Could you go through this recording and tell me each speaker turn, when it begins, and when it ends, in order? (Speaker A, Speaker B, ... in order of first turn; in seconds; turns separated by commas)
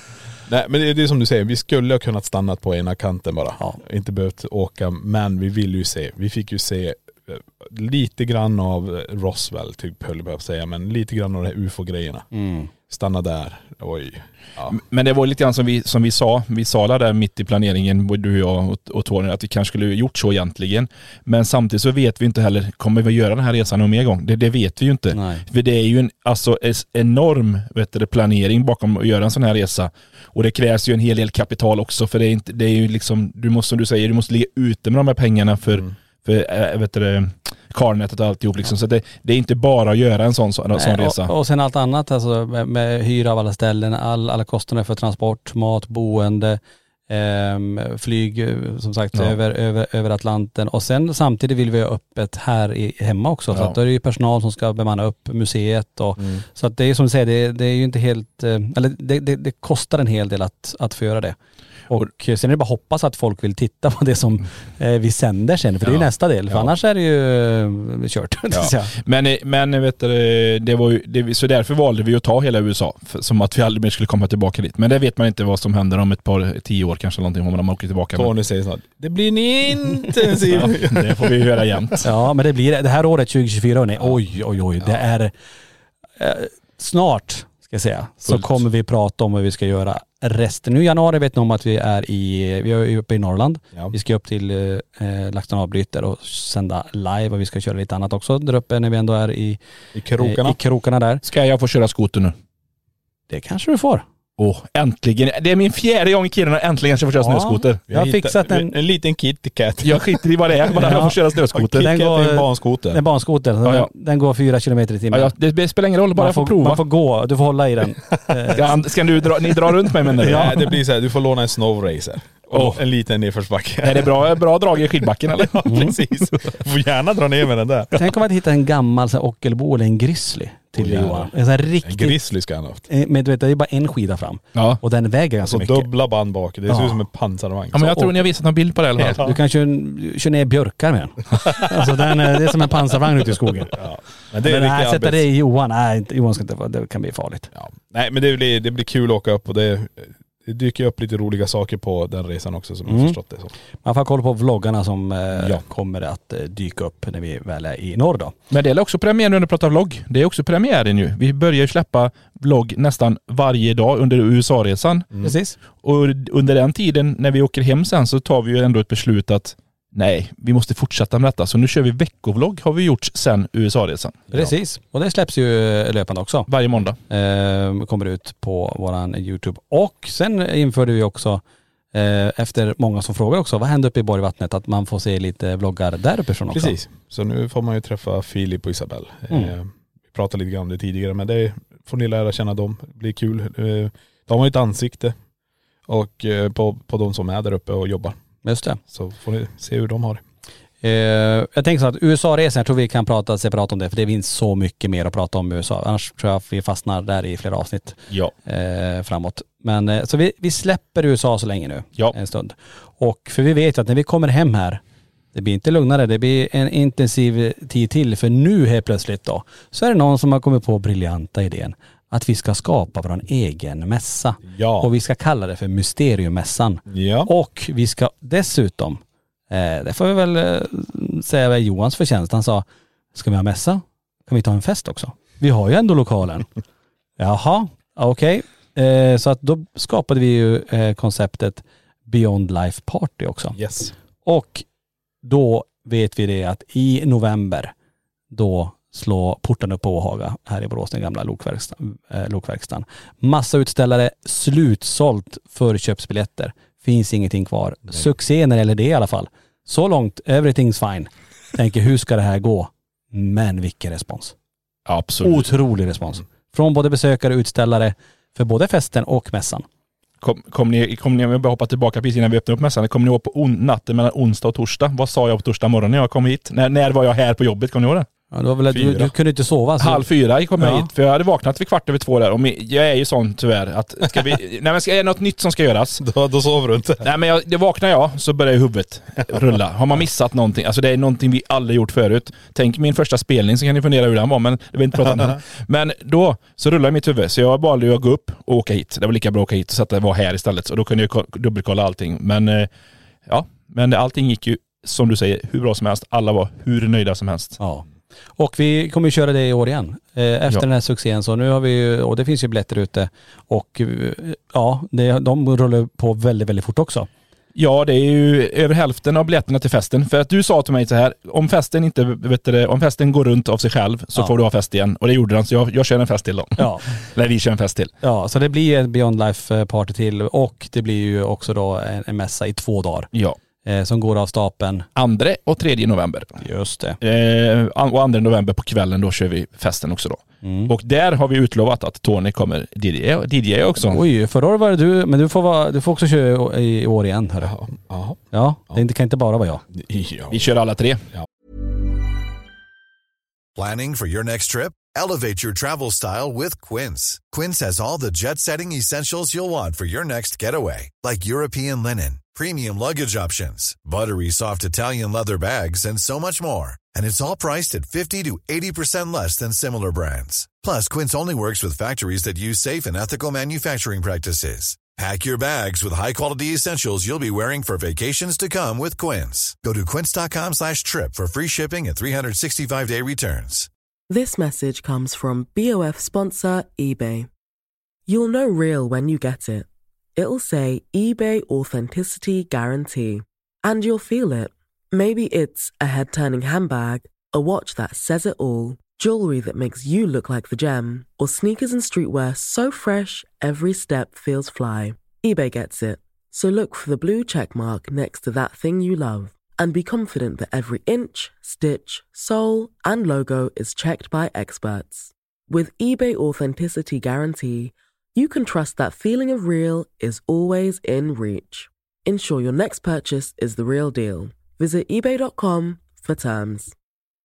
Speaker A: 0.5-12.3, Speaker B: 12.3-12.7, Speaker A: 12.9-14.8, Speaker C: 14.7-41.3, Speaker B: 25.1-25.4, Speaker B: 40.7-61.4, Speaker A: 56.2-56.4, Speaker B: 61.9-68.9, Speaker C: 69.0-78.3, Speaker A: 78.1-81.8, Speaker C: 80.5-82.0, Speaker B: 82.0-85.3, Speaker B: 86.2-99.6, Speaker C: 88.2-88.5, Speaker A: 99.9-100.6, Speaker B: 100.2-101.2, Speaker C: 101.2-102.3, Speaker B: 103.3-104.0, Speaker C: 104.4-107.8, Speaker B: 107.2-108.7, Speaker A: 107.9-110.0, Speaker C: 109.8-111.9, Speaker A: 110.7-113.0, Speaker B: 110.8-111.2, Speaker B: 111.8-115.3, Speaker C: 115.1-116.8, Speaker B: 116.1-118.7, Speaker C: 118.5-120.6, Speaker A: 120.1-124.3, Speaker B: 120.2-120.5, Speaker C: 122.5-122.8, Speaker C: 123.8-126.0, Speaker A: 125.4-127.9, Speaker B: 125.7-125.9, Speaker B: 127.9-132.2, Speaker A: 130.8-131.3, Speaker A: 131.8-132.8, Speaker B: 132.9-135.9, Speaker C: 134.5-134.8, Speaker A: 135.4-138.1, Speaker B: 136.7-137.0, Speaker C: 137.7-139.2, Speaker A: 139.0-139.4, Speaker B: 139.2-143.7, Speaker A: 143.7-145.2, Speaker B: 144.4-147.5, Speaker A: 147.5-153.5, Speaker B: 152.9-153.2, Speaker B: 153.8-158.3, Speaker A: 155.3-155.6, Speaker C: 158.5-165.1, Speaker B: 165.2-165.6, Speaker C: 165.8-174.2, Speaker B: 174.3-176.5, Speaker C: 176.5-177.0, Speaker B: 177.1-181.4, Speaker B: 181.9-186.7, Speaker A: 186.5-195.1, Speaker A: 195.9-198.2, Speaker B: 198.4-198.8, Speaker A: 198.9-200.2, Speaker B: 200.8-214.8, Speaker B: 215.3-236.5, Speaker A: 224.4-224.9, Speaker A: 226.9-227.3, Speaker B: 237.2-243.6, Speaker A: 243.5-243.9, Speaker B: 244.2-244.6, Speaker B: 245.2-247.7, Speaker B: 248.3-264.3, Speaker C: 264.9-265.5, Speaker B: 265.2-269.6, Speaker C: 270.2-278.1, Speaker B: 278.3-280.1, Speaker A: 278.7-279.1, Speaker C: 279.8-286.0, Speaker B: 280.6-280.9, Speaker A: 286.0-287.1, Speaker C: 287.0-302.7, Speaker C: 303.3-307.6, Speaker B: 307.6-307.9, Speaker B: 308.4-317.1, Speaker C: 317.5-327.9, Speaker B: 326.6-326.8, Speaker B: 328.0-333.1, Speaker B: 333.6-334.9, Speaker C: 334.9-336.4, Speaker B: 336.4-337.0, Speaker C: 337.0-344.0, Speaker B: 340.4-340.7, Speaker B: 343.9-347.5, Speaker A: 347.4-348.8, Speaker B: 348.3-349.6, Speaker A: 349.7-350.5, Speaker C: 350.3-351.0, Speaker D: 353.6-383.7, Speaker E: 384.1-387.3, Speaker E: 388.1-426.7